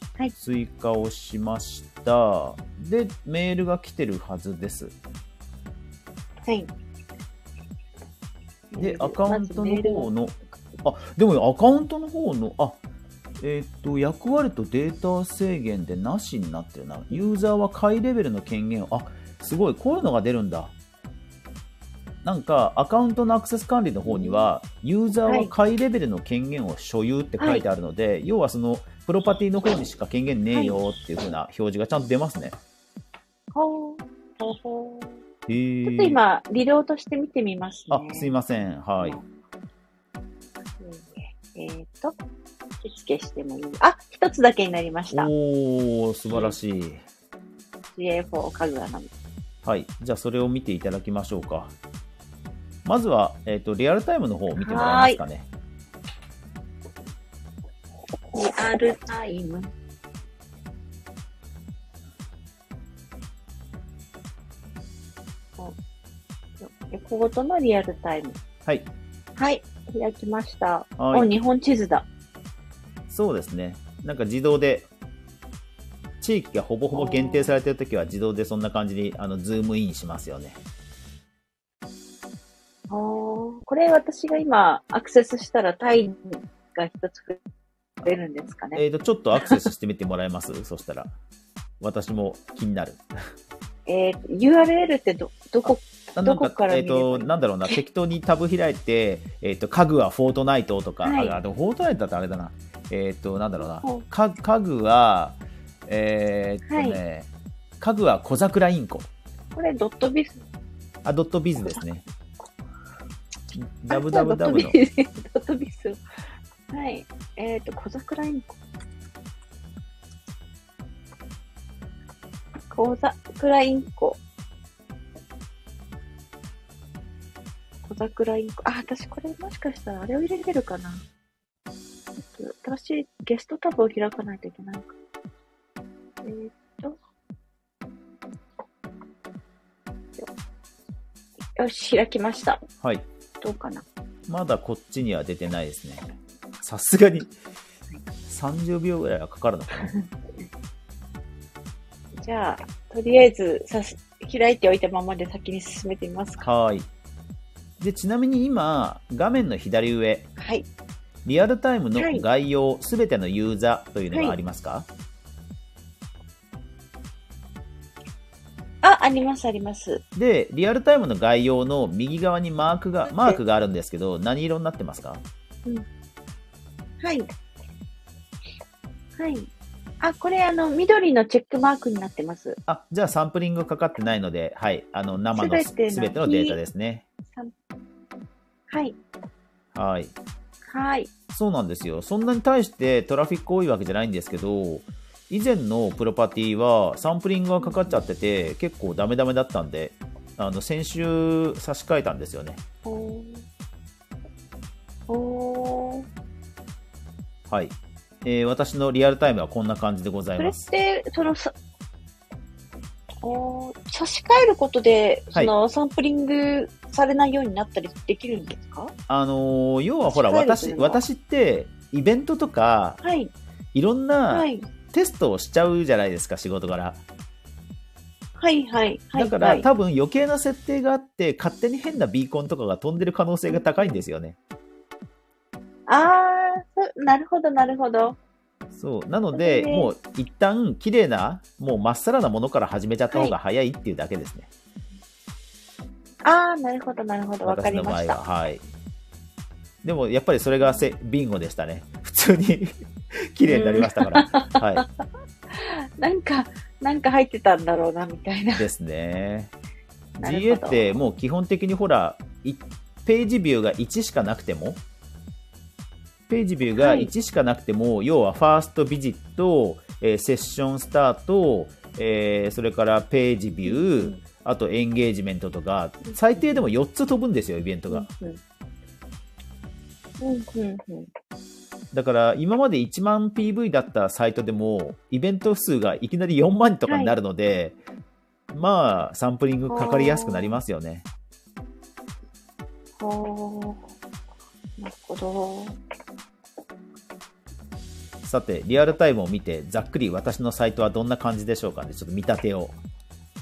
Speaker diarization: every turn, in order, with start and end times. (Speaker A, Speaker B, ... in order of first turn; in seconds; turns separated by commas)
Speaker A: 0.3-4.9, Speaker B: 8.7-10.1, Speaker A: 8.8-12.8, Speaker A: 13.4-20.7, Speaker A: 22.2-32.5, Speaker B: 24.1-24.5, Speaker B: 27.4-27.6, Speaker B: 30.5-30.8, Speaker B: 33.5-35.2, Speaker A: 35.5-36.2, Speaker B: 35.9-38.3, Speaker A: 37.9-39.2, Speaker B: 39.0-39.2, Speaker B: 40.8-42.2, Speaker B: 42.8-45.3, Speaker A: 45.1-47.0, Speaker B: 46.3-46.6, Speaker B: 48.0-49.1, Speaker A: 49.6-51.7, Speaker A: 52.8-55.5, Speaker B: 54.6-55.2, Speaker B: 58.3-59.7, Speaker B: 66.6-68.4, Speaker B: 69.4-72.1, Speaker A: 71.0-71.3, Speaker A: 73.1-74.9, Speaker A: 76.2-80.6, Speaker B: 76.9-77.5, Speaker B: 82.9-87.4, Speaker B: 88.0-88.8, Speaker A: 88.7-91.1, Speaker A: 91.8-93.0, Speaker B: 93.8-97.7, Speaker A: 96.1-107.3, Speaker B: 101.0-101.3, Speaker B: 103.6-104.0, Speaker B: 106.7-107.0, Speaker A: 107.8-109.1, Speaker B: 109.5-110.4, Speaker A: 111.0-112.0, Speaker A: 113.5-114.8, Speaker B: 113.9-116.0, Speaker B: 116.7-118.5, Speaker B: 122.7-124.2, Speaker B: 127.8-131.0, Speaker B: 132.2-134.9, Speaker B: 136.2-137.0, Speaker B: 141.6-142.6, Speaker A: 142.8-143.1, Speaker B: 143.4-143.8, Speaker A: 144.3-146.1, Speaker A: 146.6-147.3, Speaker A: 148.2-149.9, Speaker B: 149.7-150.5, Speaker B: 152.2-156.4, Speaker A: 156.4-156.9, Speaker A: 157.8-160.3, Speaker B: 160.4-160.7, Speaker A: 161.2-164.9, Speaker B: 161.9-162.2, Speaker B: 164.1-164.4, Speaker B: 168.8-170.0, Speaker A: 170.1-175.2, Speaker B: 173.1-173.4, Speaker B: 177.0-177.3, Speaker B: 179.2-179.5, Speaker B: 180.0-182.6, Speaker A: 182.7-187.0, Speaker B: 185.3-186.6, Speaker B: 188.7-189.0, Speaker A: 189.7-190.1, Speaker B: 190.7-191.1, Speaker A: 191.3-202.6, Speaker B: 197.6-198.0, Speaker B: 202.8-203.4, Speaker B: 205.1-206.1, Speaker A: 207.5-210.7, Speaker B: 210.4-211.5, Speaker B: 213.2-218.9, Speaker A: 219.1-223.0, Speaker B: 220.1-221.0, Speaker B: 223.0-223.3, Speaker A: 223.7-227.0, Speaker B: 224.3-224.6, Speaker B: 228.4-229.7, Speaker A: 229.1-234.4, Speaker B: 233.5-234.0, Speaker B: 235.9-238.2, Speaker A: 238.7-244.5, Speaker B: 239.3-239.9, Speaker B: 246.2-248.2, Speaker A: 247.4-248.7, Speaker A: 249.8-254.8, Speaker B: 250.6-250.9, Speaker B: 253.5-254.8, Speaker B: 255.5-258.7, Speaker A: 258.6-259.5, Speaker A: 260.2-264.8, Speaker B: 260.2-261.0, Speaker A: 266.3-278.1, Speaker B: 266.7-267.1, Speaker B: 273.6-274.2, Speaker B: 276.1-276.6, Speaker B: 277.9-278.4, Speaker B: 280.2-281.1, Speaker A: 281.9-287.8, Speaker B: 286.9-287.1, Speaker A: 288.5-291.1, Speaker B: 289.7-290.6, Speaker B: 293.0-293.9, Speaker B: 294.8-295.8, Speaker A: 298.2-302.8